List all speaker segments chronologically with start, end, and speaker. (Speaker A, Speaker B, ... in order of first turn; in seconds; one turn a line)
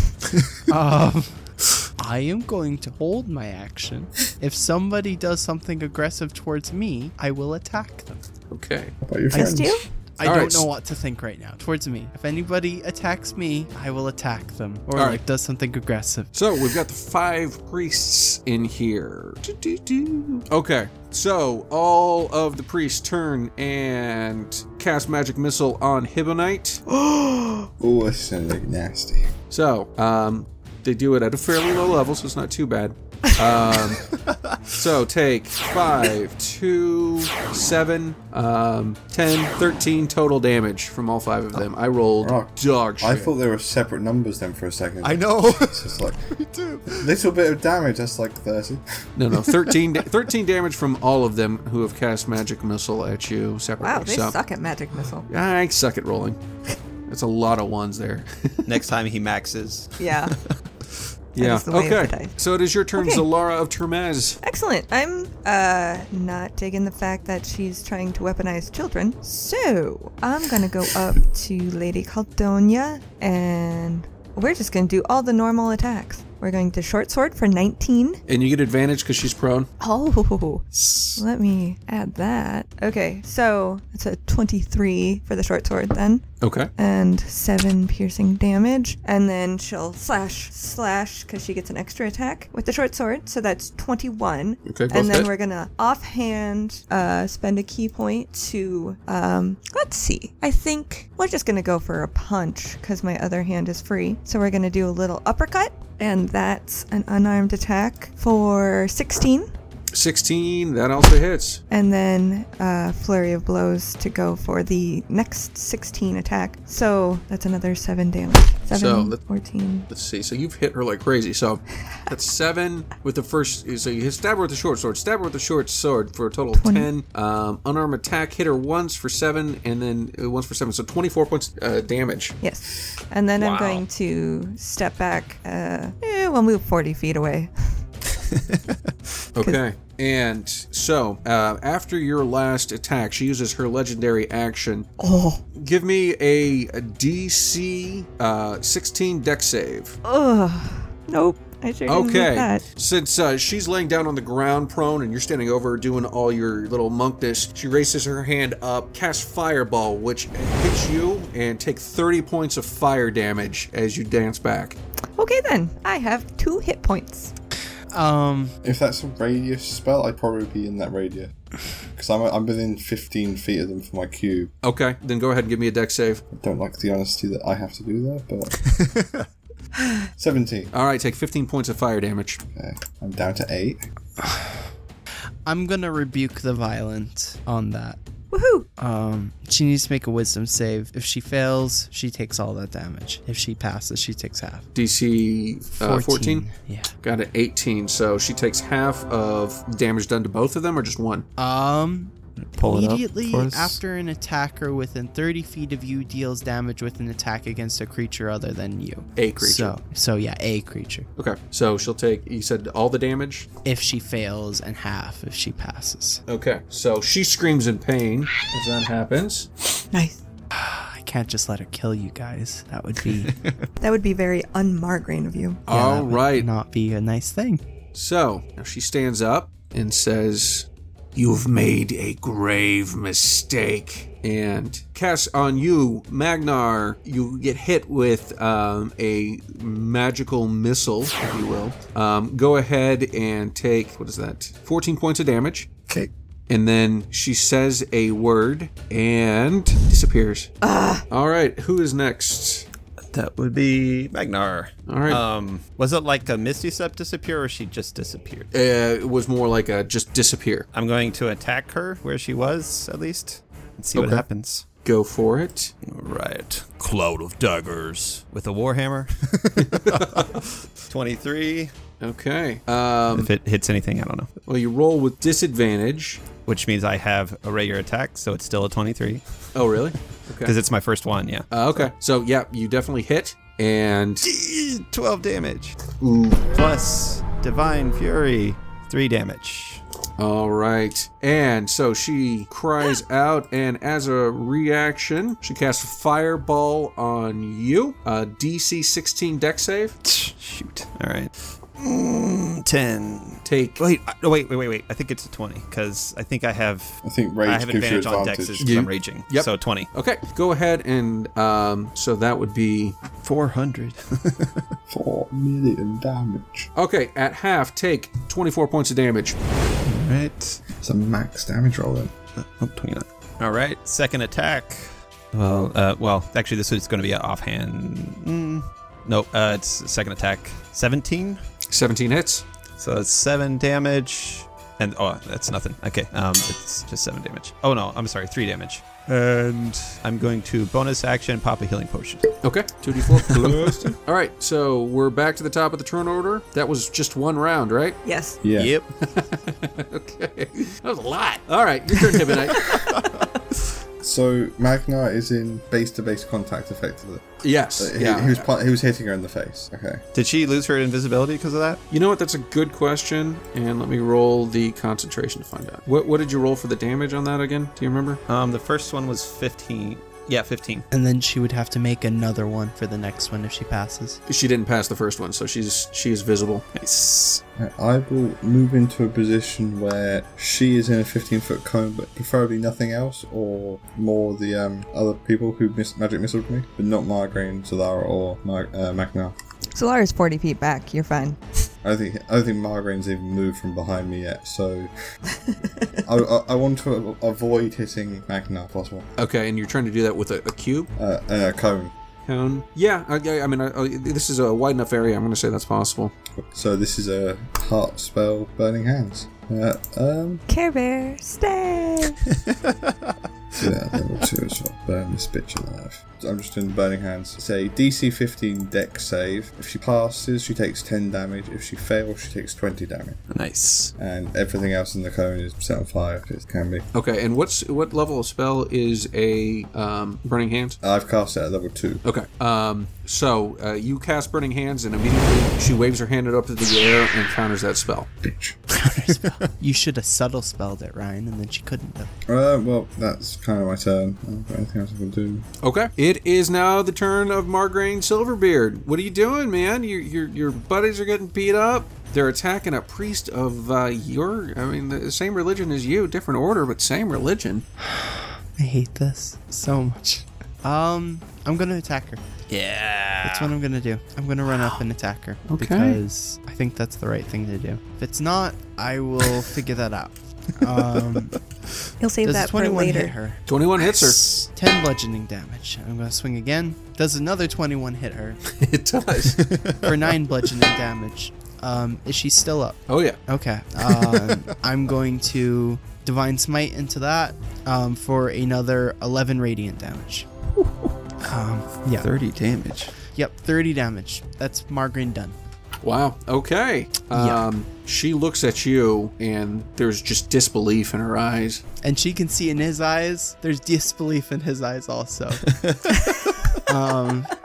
Speaker A: 0.7-8.2
Speaker B: 8.5-8.9
Speaker C: 9.0-9.8
Speaker D: 9.3-9.9
Speaker A: 10.2-16.3
Speaker B: 10.2-10.7
Speaker B: 14.9-15.2
Speaker B: 16.3-26.8
Speaker D: 27.0-27.7
Speaker C: 27.8-29.3
Speaker B: 29.5-34.1
Speaker E: 34.1-34.7
Speaker B: 34.7-43.3
Speaker C: 42.2-46.3
Speaker E: 45.0-47.1
Speaker C: 46.9-48.8
Speaker B: 49.1-54.4
Speaker D: 53.8-55.3
Speaker B: 55.3-56.4
Speaker B: 57.1-58.8
Speaker E: 58.7-60.5
Speaker D: 60.0-60.4
Speaker D: 61.4-62.3
Speaker B: 61.4-64.4
Speaker D: 63.0-63.2
Speaker D: 64.4-78.2
Speaker B: 78.3-79.7
Speaker D: 79.8-86.2
Speaker B: 86.4-86.7
Speaker D: 86.8-109.5
Speaker B: 94.6-95.3
Speaker B: 109.9-111.6
Speaker D: 111.7-119.9
Speaker B: 118.7-119.2
Speaker B: 119.9-132.4
Speaker D: 126.5-126.9
Speaker D: 132.4-137.8
Speaker E: 133.4-133.8
Speaker E: 138.2-138.9
Speaker B: 139.3-144.9
Speaker D: 145.0-145.4
Speaker B: 145.5-150.0
Speaker D: 150.0-152.6
Speaker B: 151.9-164.8
Speaker D: 165.2-167.3
Speaker A: 167.9-168.5
Speaker C: 168.6-171.3
Speaker C: 171.9-174.5
Speaker B: 174.6-176.2
Speaker C: 176.3-178.6
Speaker E: 178.6-179.2
Speaker C: 180.2-180.7
Speaker B: 180.7-182.4
Speaker C: 182.5-183.8
Speaker A: 184.2-184.6
Speaker A: 185.4-188.0
Speaker D: 188.3-188.7
Speaker A: 188.8-194.7
Speaker B: 194.7-196.5
Speaker A: 195.7-196.9
Speaker B: 197.0-201.2
Speaker A: 201.4-211.1
Speaker E: 202.4-203.8
Speaker B: 209.2-209.8
Speaker B: 211.2-213.5
Speaker A: 213.6-216.2
Speaker B: 216.3-219.5
Speaker D: 219.9-220.2
Speaker A: 220.5-223.4
Speaker E: 223.3-223.6
Speaker D: 223.8-225.6
Speaker B: 225.7-226.5
Speaker A: 225.7-227.6
Speaker B: 227.9-245.7
Speaker B: 246.5-250.5
Speaker D: 250.6-251.0
Speaker B: 251.1-252.7
Speaker E: 253.1-258.5
Speaker B: 254.9-255.2
Speaker B: 258.5-260.7
Speaker E: 260.7-264.6
Speaker B: 263.9-264.2
Speaker B: 264.8-265.7
Speaker E: 265.8-271.7
Speaker B: 269.6-270.4
Speaker B: 272.0-273.3
Speaker E: 273.1-274.3
Speaker B: 274.5-276.2
Speaker E: 276.4-279.2
Speaker B: 279.5-280.5
Speaker E: 280.4-281.5
Speaker B: 281.5-284.2
Speaker E: 284.2-285.8
Speaker B: 286.0-286.4
Speaker E: 286.5-289.8
Speaker B: 290.2-299.9
Speaker E: 300.0-309.9
Speaker B: 303.4-303.8
Speaker C: 307.0-308.7
Speaker B: 308.6-312.9
Speaker E: 313.2-314.7
Speaker C: 314.9-316.7
Speaker B: 316.8-319.4
Speaker E: 319.8-320.6
Speaker C: 320.8-322.1
Speaker E: 322.4-331.4
Speaker B: 331.7-332.4
Speaker E: 332.8-342.4
Speaker B: 342.4-348.0
Speaker E: 343.3-343.9
Speaker D: 348.0-348.4
Speaker C: 348.4-348.7
Speaker E: 348.5-348.9
Speaker B: 349.0-352.8
Speaker D: 352.5-352.8
Speaker E: 352.7-353.2
Speaker C: 354.0-360.0
Speaker B: 357.4-358.4
Speaker E: 360.1-361.8
Speaker B: 361.9-368.2
Speaker E: 368.3-370.9
Speaker A: 370.9-374.2
Speaker B: 374.3-376.7
Speaker E: 376.7-377.4
Speaker C: 377.6-389.4
Speaker D: 389.7-391.4
Speaker C: 391.8-394.9
Speaker C: 396.0-399.1
Speaker B: 399.2-400.9
Speaker C: 400.9-401.9
Speaker B: 402.2-406.1
Speaker C: 406.4-410.4
Speaker D: 410.5-412.2
Speaker E: 412.3-413.1
Speaker C: 413.6-423.2
Speaker E: 423.3-423.9
Speaker C: 424.0-426.8
Speaker B: 426.9-430.8
Speaker C: 430.8-432.0
Speaker B: 432.0-438.1
Speaker C: 438.2-438.6
Speaker A: 438.7-442.1
Speaker C: 442.3-445.4
Speaker B: 445.6-457.6
Speaker A: 457.8-462.2
Speaker E: 462.5-463.5
Speaker A: 463.2-471.4
Speaker B: 465.5-466.0
Speaker D: 472.0-473.1
Speaker A: 472.2-473.4
Speaker B: 473.4-474.2
Speaker A: 473.9-478.4
Speaker B: 478.4-479.4
Speaker E: 479.4-479.9
Speaker A: 479.8-490.3
Speaker B: 482.9-483.2
Speaker E: 490.6-490.9
Speaker A: 491.2-492.1
Speaker E: 492.0-492.9
Speaker A: 493.1-495.4
Speaker B: 495.8-501.6
Speaker A: 497.1-497.4
Speaker A: 501.8-505.5
Speaker E: 505.5-506.6
Speaker A: 506.6-507.3